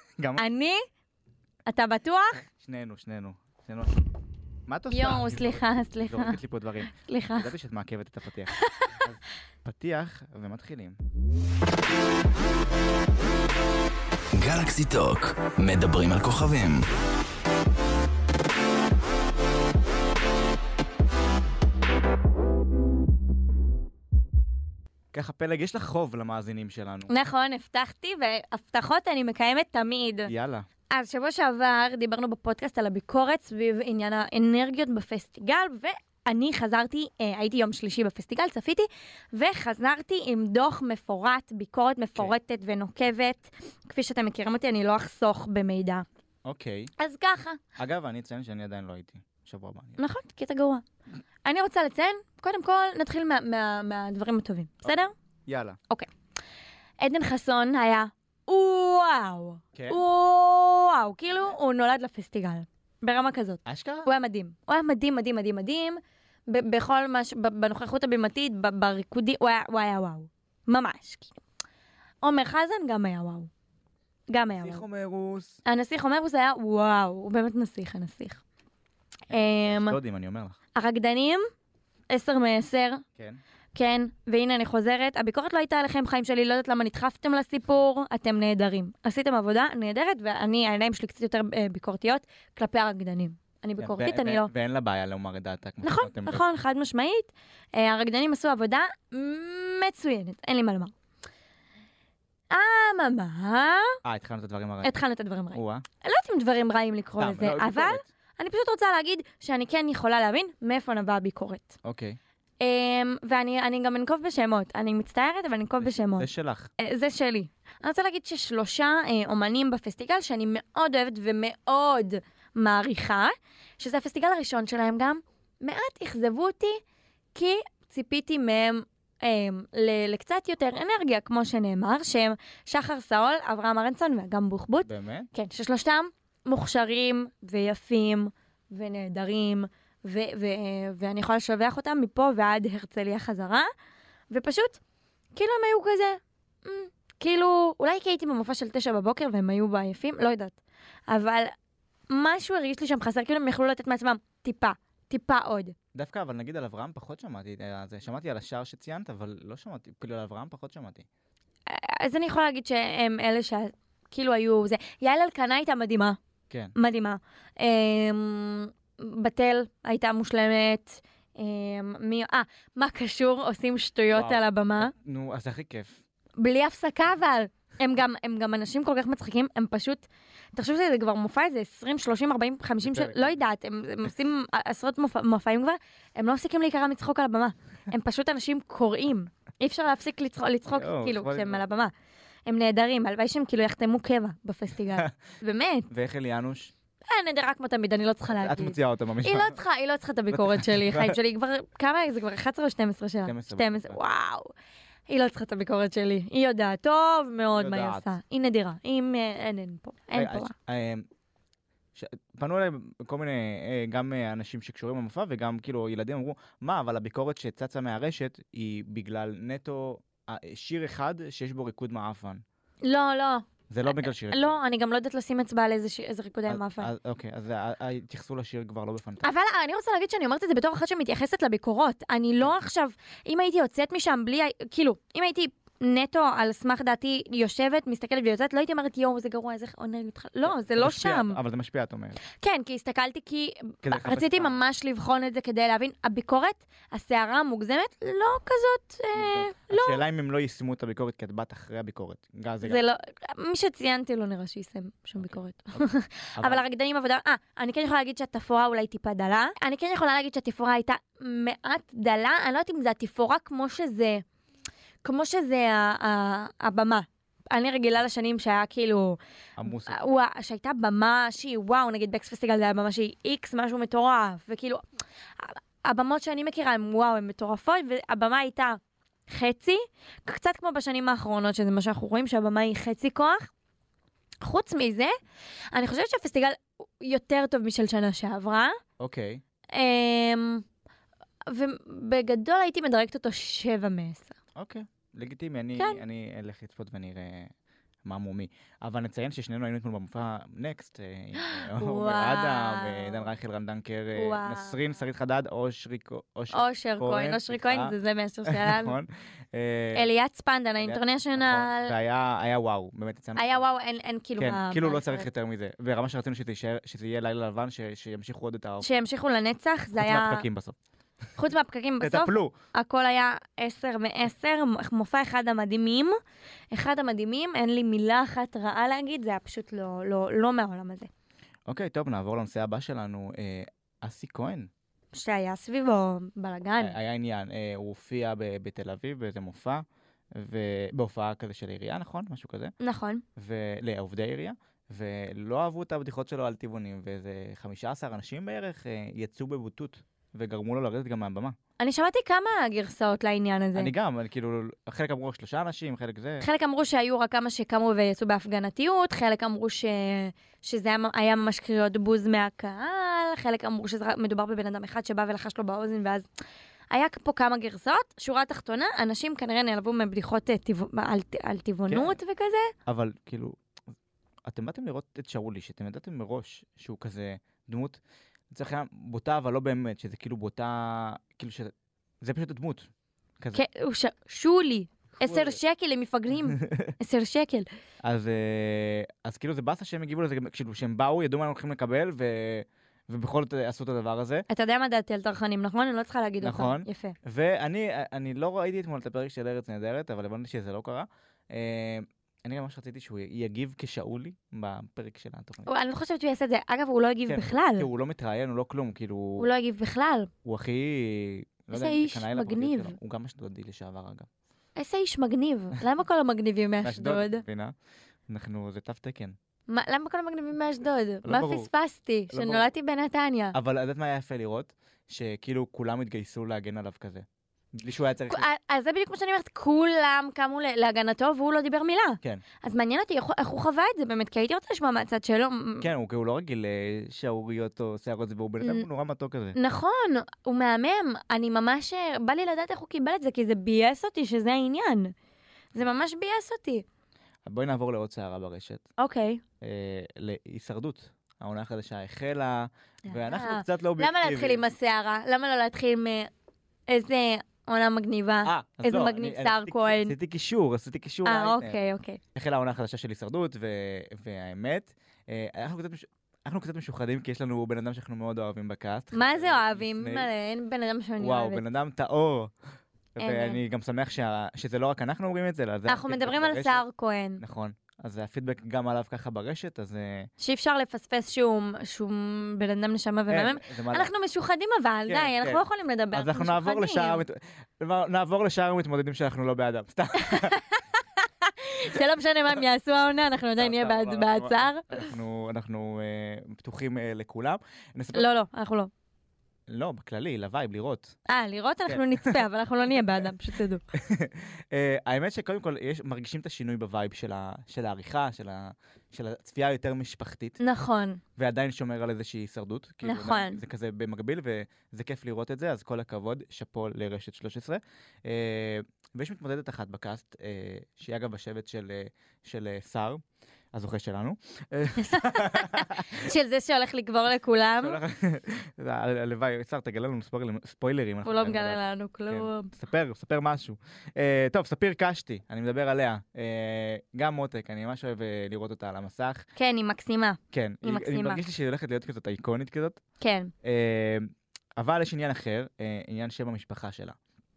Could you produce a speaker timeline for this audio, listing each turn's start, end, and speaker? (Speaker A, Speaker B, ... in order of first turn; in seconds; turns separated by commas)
Speaker A: 0.2-0.5, Speaker B: 0.4-0.8, Speaker B: 1.7-2.4, Speaker A: 2.6-3.9, Speaker A: 4.7-11.0, Speaker B: 4.9-6.4, Speaker B: 6.9-7.5, Speaker B: 8.5-8.9, Speaker C: 14.3-16.9, Speaker A: 25.1-27.1, Speaker B: 27.1-30.3, Speaker A: 30.3-30.7, Speaker B: 30.9-46.1, Speaker A: 46.5-46.9, Speaker B: 47.0-47.6, Speaker A: 47.8-50.0, Speaker B: 50.0-50.8, Speaker B: 51.5-55.1, Speaker A: 55.5-55.8, Speaker B: 57.0-71.4, Speaker A: 59.7-60.0, Speaker A: 63.7-64.1, Speaker B: 72.2-73.5, Speaker B: 74.3-74.8, Speaker A: 74.5-75.6, Speaker B: 75.7-78.4, Speaker B: 79.3-80.0, Speaker A: 79.3-80.6, Speaker B: 80.8-81.4, Speaker B: 82.1-83.0, Speaker B: 83.8-94.5, Speaker A: 93.8-96.4, Speaker B: 95.8-100.9, Speaker B: 102.5-104.0, Speaker A: 104.0-104.9, Speaker B: 104.8-111.7, Speaker A: 105.5-105.8, Speaker A: 107.2-108.0, Speaker A: 111.8-112.2, Speaker B: 112.6-116.3, Speaker A: 115.8-116.7, Speaker B: 116.8-126.8, Speaker B: 127.3-143.7, Speaker A: 134.8-135.3, Speaker B: 144.3-144.8, Speaker B: 145.3-150.6, Speaker B: 151.1-151.5, Speaker B: 152.1-155.8, Speaker A: 155.9-161.1, Speaker B: 161.7-166.2, Speaker B: 166.8-174.9, Speaker A: 174.1-176.0, Speaker B: 176.4-191.9, Speaker A: 182.8-183.3, Speaker A: 190.7-191.6, Speaker B: 192.5-195.9, Speaker A: 195.9-196.7, Speaker B: 197.1-204.5, Speaker A: 198.3-199.6, Speaker A: 200.3-201.2, Speaker A: 203.2-204.0, Speaker B: 205.1-210.5, Speaker A: 207.6-208.1, Speaker A: 210.1-211.1, Speaker A: 211.9-222.4, Speaker B: 222.8-226.9, Speaker A: 223.7-224.6, Speaker A: 226.5-229.3, Speaker B: 229.2-241.4, Speaker A: 240.4-242.2, Speaker B: 242.3-250.0, Speaker A: 243.8-244.6, Speaker A: 249.1-252.8, Speaker B: 252.6-264.2, Speaker A: 255.2-255.8, Speaker A: 256.4-256.6, Speaker B: 265.0-274.8, Speaker A: 269.6-270.0, Speaker B: 275.4-283.5, Speaker B: 284.4-285.1, Speaker B: 285.7-288.8, Speaker A: 289.0-289.4, Speaker B: 289.7-290.6, Speaker B: 291.5-294.4, Speaker A: 294.6-297.5, Speaker B: 295.8-296.0, Speaker A: 298.1-307.9, Speaker B: 301.4-303.3, Speaker B: 304.2-304.8, Speaker B: 306.5-308.9, Speaker A: 308.5-310.1, Speaker B: 309.9-311.9, Speaker A: 310.8-313.6, Speaker B: 313.4-315.3, Speaker A: 314.4-318.9, Speaker B: 318.8-320.4, Speaker A: 319.9-320.8, Speaker B: 321.4-326.2, Speaker A: 322.0-322.5, Speaker B: 326.7-331.1, Speaker A: 331.7-334.7, Speaker B: 335.1-337.0, Speaker A: 336.8-342.7, Speaker B: 342.8-343.2, Speaker A: 343.4-351.6, Speaker B: 351.8-353.9, Speaker A: 353.8-356.5, Speaker B: 356.4-366.3, Speaker B: 366.9-372.7, Speaker A: 371.9-372.2, Speaker A: 372.9-373.6, Speaker A: 374.4-378.0, Speaker A: 378.5-383.6, Speaker B: 383.5-387.7, Speaker A: 385.2-385.6, Speaker A: 386.5-386.9, Speaker A: 388.0-394.5, Speaker B: 394.5-397.2, Speaker A: 396.4-405.7, Speaker B: 405.7-407.9, Speaker A: 407.3-409.5, Speaker B: 409.4-410.3, Speaker A: 410.4-414.3, Speaker B: 411.7-413.0, Speaker B: 414.8-417.4, Speaker A: 416.8-417.8, Speaker A: 418.3-419.4, Speaker B: 419.7-423.6, Speaker A: 421.2-421.7, Speaker A: 422.3-422.7, Speaker A: 423.5-428.5, Speaker B: 428.3-435.9, Speaker A: 435.8-439.6, Speaker B: 438.6-438.9, Speaker B: 439.6-445.1, Speaker B: 445.7-446.9, Speaker A: 447.5-448.9, Speaker B: 449.0-449.4, Speaker A: 449.6-454.6, Speaker B: 453.1-456.3, Speaker B: 456.9-460.2, Speaker A: 458.4-461.8, Speaker B: 461.2-462.2, Speaker A: 462.4-470.3, Speaker B: 469.1-471.6, Speaker A: 471.2-472.5, Speaker A: 473.2-476.8, Speaker B: 473.2-473.6, Speaker B: 475.9-477.4, Speaker A: 477.4-480.3, Speaker B: 480.4-487.2, Speaker A: 483.3-484.1, Speaker A: 485.1-490.6, Speaker B: 490.2-495.1, Speaker A: 493.6-498.3, Speaker B: 498.1-498.9, Speaker A: 499.7-501.1, Speaker B: 501.3-503.8, Speaker A: 501.9-502.4, Speaker A: 503.9-510.6, Speaker B: 510.6-511.2, Speaker A: 511.4-523.2, Speaker B: 513.0-513.6, Speaker A: 523.7-526.3, Speaker B: 525.0-528.0, Speaker A: 527.8-539.5, Speaker B: 531.2-532.7, Speaker B: 539.6-541.4, Speaker A: 540.5-543.0, Speaker B: 543.2-543.5, Speaker A: 543.6-547.2